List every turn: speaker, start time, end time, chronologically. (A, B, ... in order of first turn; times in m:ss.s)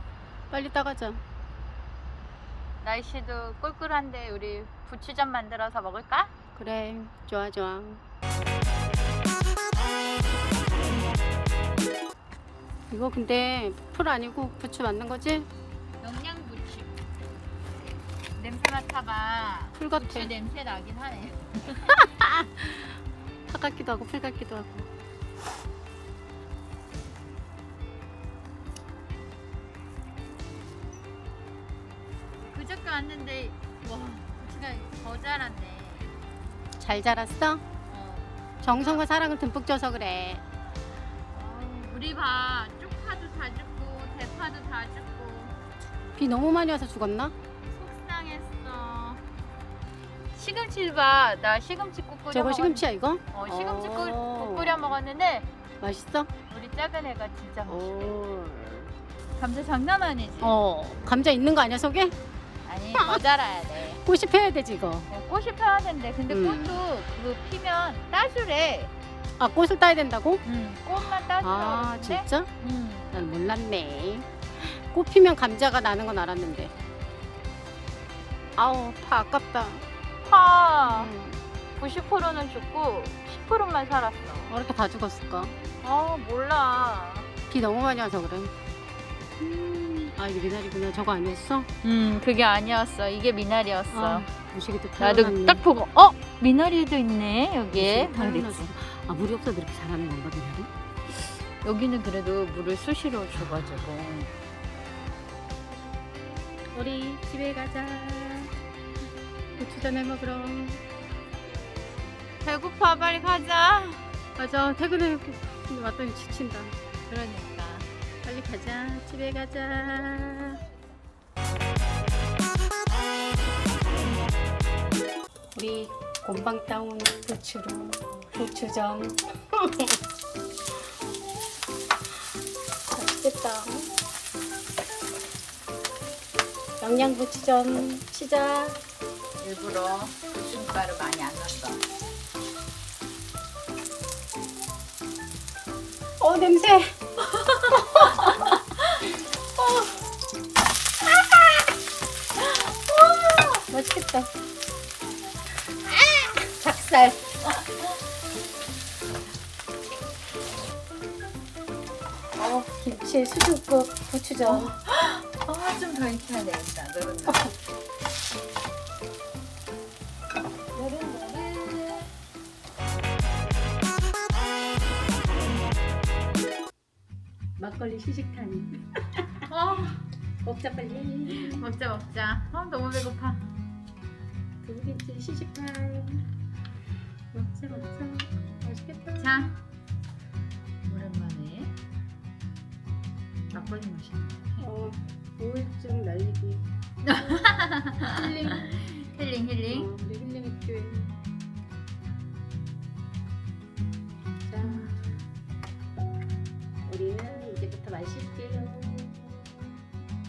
0:00.5-0:01.2 A
0:02.8-0:06.3 B
0:06.6-0:08.0 A
0:12.9-0:15.5 A
0:16.0-0:16.9 B
0:18.4-0:22.0 B
0:19.8-0:20.3 A
0:21.9-0:23.0 A
0:23.5-0:24.9 A
0:32.5-0:36.1 B
0:36.8-0:37.6 A
0:37.9-0:39.0 B
0:38.6-0:40.4 A
0:41.3-0:45.5 B
0:46.2-0:47.3 A
0:47.7-0:49.2 B
0:50.3-0:55.5 B
0:52.3-0:54.9 A
0:55.8-0:56.3 A
0:56.5-0:58.2 B
0:57.7-0:58.9 A
0:59.4-1:00.6 B
1:00.4-1:02.2 A
1:02.6-1:04.0 B
1:03.0-1:03.2 A
1:04.0-1:05.1 A
1:05.1-1:08.9 B
1:06.3-1:06.8 A
1:09.4-1:10.4 A
1:10.4-1:13.2 B
1:11.4-1:12.5 A
1:13.1-1:16.7 A
1:18.6-1:19.8 A
1:20.2-1:21.1 B
1:20.8-1:21.4 A
1:21.8-1:24.5 B
1:24.5-1:25.6 A
1:25.8-1:27.3 B
1:27.5-1:28.5 A
1:29.4-1:31.7 A
1:31.8-1:34.2 B
1:33.9-1:35.6 A
1:35.0-1:38.7 B
1:37.7-1:40.7 A
1:41.6-1:44.3 B
1:46.7-1:48.5 A
1:49.6-1:50.8 A
1:52.4-1:54.1 B
1:54.4-1:56.7 A
1:57.1-1:57.9 B
1:58.2-2:00.6 A
2:05.5-2:10.0 A
2:12.9-2:13.9 A
2:16.8-2:18.8 A
2:19.4-2:21.8 B
2:26.2-2:26.9 A
2:27.5-2:28.6 A
2:29.6-2:29.9 A
2:32.4-2:33.6 B
2:33.7-2:34.3 A
2:36.0-2:37.4 A
2:37.4-2:37.8 B
2:42.4-2:44.8 A
2:44.4-2:47.5 B
2:50.7-2:52.1 B
2:57.6-2:59.2 A
2:59.5-3:00.0 B
3:00.4-3:01.6 A
3:01.3-3:03.5 B
3:04.6-3:06.2 A
3:07.3-3:09.3 A
3:09.2-3:09.6 B
3:10.8-3:11.7 B
3:13.5-3:14.6 B
3:14.6-3:16.6 A
3:17.0-3:19.9 B
3:18.0-3:18.8 A
3:19.7-3:21.1 A
3:24.4-3:25.0 A
3:24.6-3:24.9 B
3:26.8-3:29.4 A